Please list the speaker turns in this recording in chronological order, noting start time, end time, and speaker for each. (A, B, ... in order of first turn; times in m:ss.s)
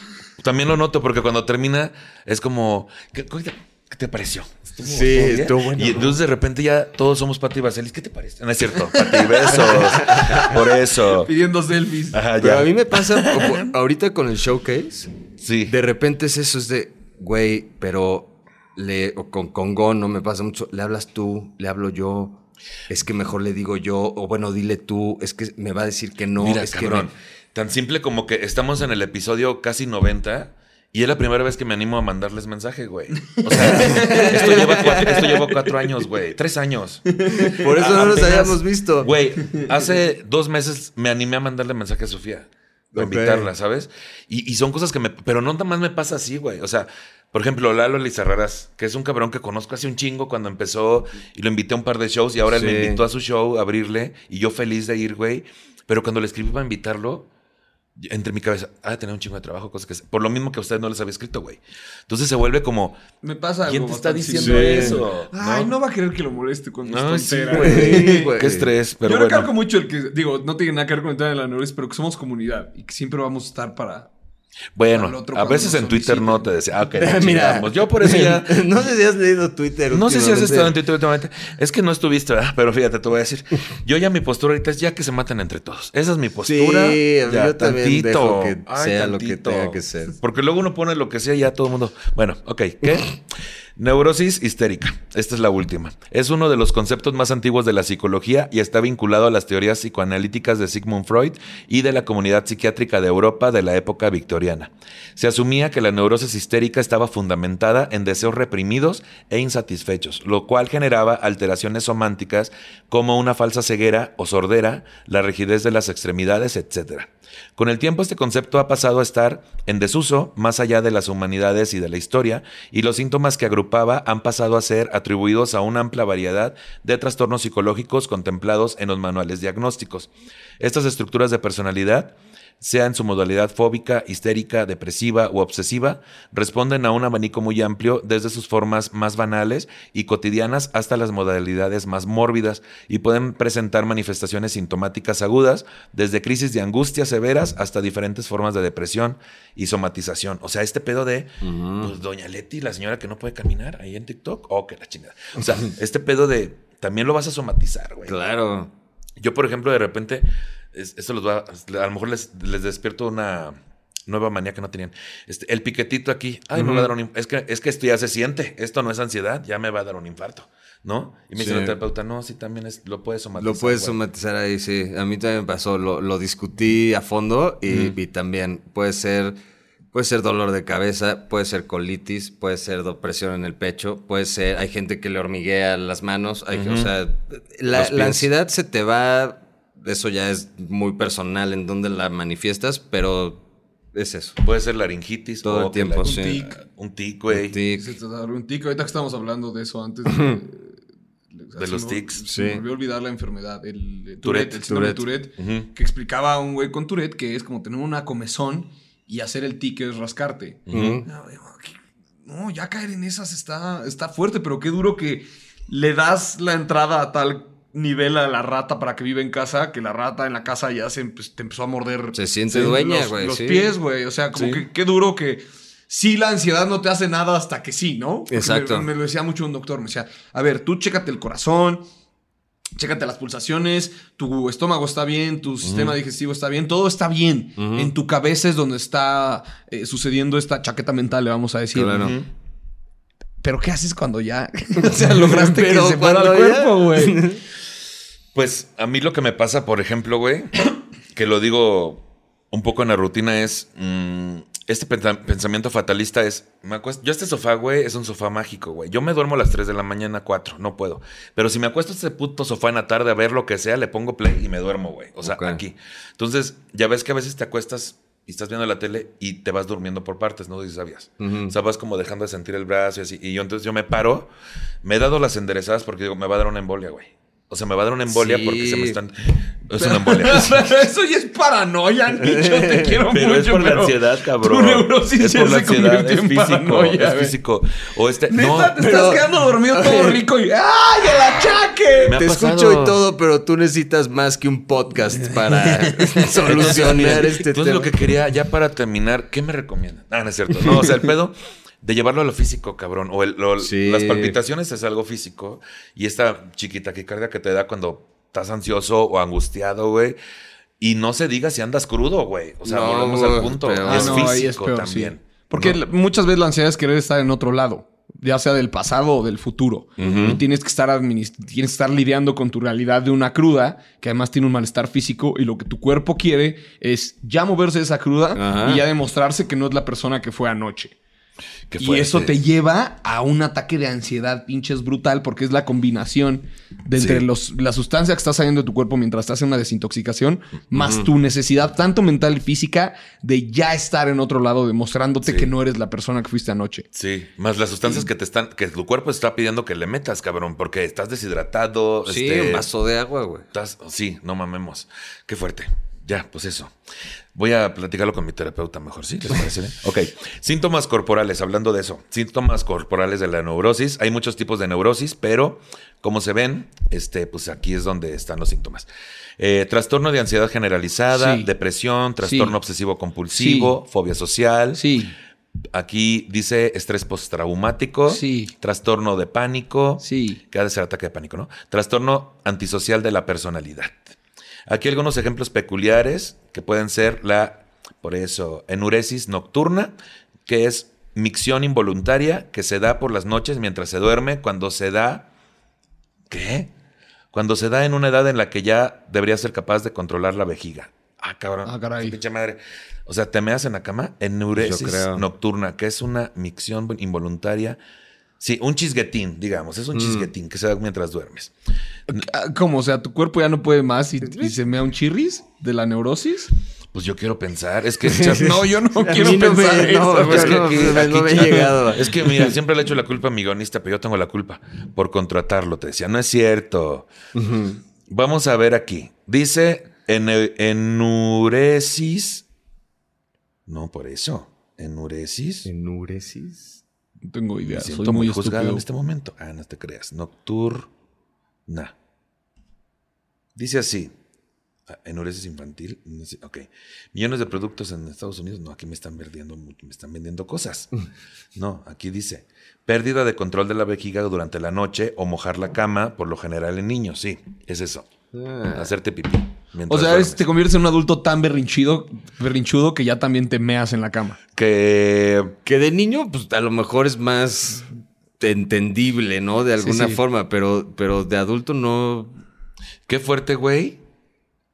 0:00.4-0:11.3 A
0:04.8-0:06.2 B
0:08.9-0:10.5 C
0:09.5-0:10.6 B
0:11.1-0:12.2 C
0:12.1-0:13.6 A
0:12.4-0:15.1 B
0:15.4-0:15.7 A
0:15.7-0:27.1 B
0:26.4-0:37.2 A
0:33.4-0:34.5 C
0:33.6-0:35.4 B
0:37.2-0:37.6 C
0:37.4-0:39.1 B
0:37.7-0:57.3 A
0:42.9-0:43.5 B
0:52.5-0:53.0 B
0:58.0-1:03.0 A
1:03.2-1:08.3 C
1:03.6-1:05.7 A
1:04.4-1:05.0 B
1:06.8-1:09.5 A
1:07.5-1:08.7 B
1:09.0-1:14.1 C
1:14.7-1:18.7 A
1:14.9-1:16.5 C
1:16.9-1:20.7 B
1:19.9-1:33.2 A
1:26.4-1:30.1 B
1:33.8-2:38.2 A
2:31.4-2:31.9 B
2:38.1-2:38.7 B
2:39.2-2:54.0 A
2:46.5-2:46.9 B
2:51.4-2:51.8 B
2:53.4-2:59.4 B
2:57.7-2:58.0 A
2:59.9-3:13.4 B
3:06.5-3:06.9 A
3:07.7-3:08.3 A
3:13.9-3:14.4 B
3:14.4-3:17.6 A
3:15.4-3:16.4 B
3:16.0-3:16.6 C
3:17.3-3:17.9 B
3:17.8-3:20.8 C
3:20.1-3:20.4 B
3:21.3-3:51.8 C
3:21.6-3:22.2 A
3:22.3-3:22.6 B
3:24.2-3:24.7 A
3:24.7-3:25.0 B
3:25.4-3:25.7 A
3:30.7-3:31.0 A
3:30.7-3:31.0 B
3:42.1-3:43.7 B
3:44.3-3:44.6 A
3:48.3-3:48.9 B
3:52.8-4:02.1 C
3:55.6-3:55.9 A
3:57.6-3:57.9 B
4:01.7-4:02.2 B
4:02.0-4:02.3 A
4:03.4-4:07.2 C
4:04.8-4:07.4 B
4:08.3-4:10.5 A
4:11.1-4:34.3 A
4:25.2-4:25.6 B
4:31.2-4:31.5 B
4:34.8-4:40.7 A
4:38.1-4:39.0 B
4:39.7-4:47.3 C
4:42.2-4:43.0 B
4:43.1-4:48.8 A
4:48.3-4:52.2 C
4:48.8-4:50.2 B
4:52.0-4:53.0 A
4:52.1-4:57.9 B
4:55.5-4:57.2 C
4:56.6-5:10.2 A
5:03.6-5:04.3 B
5:10.8-5:15.8 A
5:12.6-5:14.4 B
5:13.8-5:31.0 C
5:20.0-5:20.4 A
5:20.0-5:20.4 B
5:28.3-5:28.8 B
5:31.7-5:32.3 A
5:31.8-5:46.9 C
5:37.0-5:37.2 A
5:45.2-5:45.5 A
5:46.9-5:52.7 A
5:52.0-5:53.4 B
5:53.5-5:56.7 A
5:57.3-6:14.8 A
6:11.1-6:11.5 C
6:12.2-6:12.5 C
6:13.3-6:13.7 C
6:14.7-6:15.1 C
6:15.7-6:24.0 A
6:18.1-6:18.5 C
6:20.0-6:20.4 C
6:24.7-6:29.9 A
6:30.4-6:35.3 A
6:36.3-6:36.7 A
6:37.3-6:47.8 A
6:41.6-6:42.2 C
6:44.6-6:45.2 B
6:48.4-6:51.5 A
6:49.9-6:50.3 B
6:52.1-6:56.5 C
6:56.9-6:58.7 A
6:58.0-7:02.3 B
6:58.3-7:01.7 C
7:00.2-7:07.1 A
7:07.3-7:07.8 B
7:08.1-7:12.4 A
7:13.7-7:15.7 A
7:15.6-7:16.8 B
7:17.3-7:18.8 C
7:17.6-7:20.9 A
7:21.7-7:21.9 A
7:23.6-7:24.1 A
7:24.9-7:30.9 A
7:31.5-7:38.1 A
7:38.3-7:38.9 B
7:38.7-7:40.4 A
7:39.9-7:44.4 C
7:44.5-7:45.5 A
7:45.6-7:47.9 B
7:48.4-7:52.3 B
7:49.8-7:50.2 C
7:53.1-7:54.0 A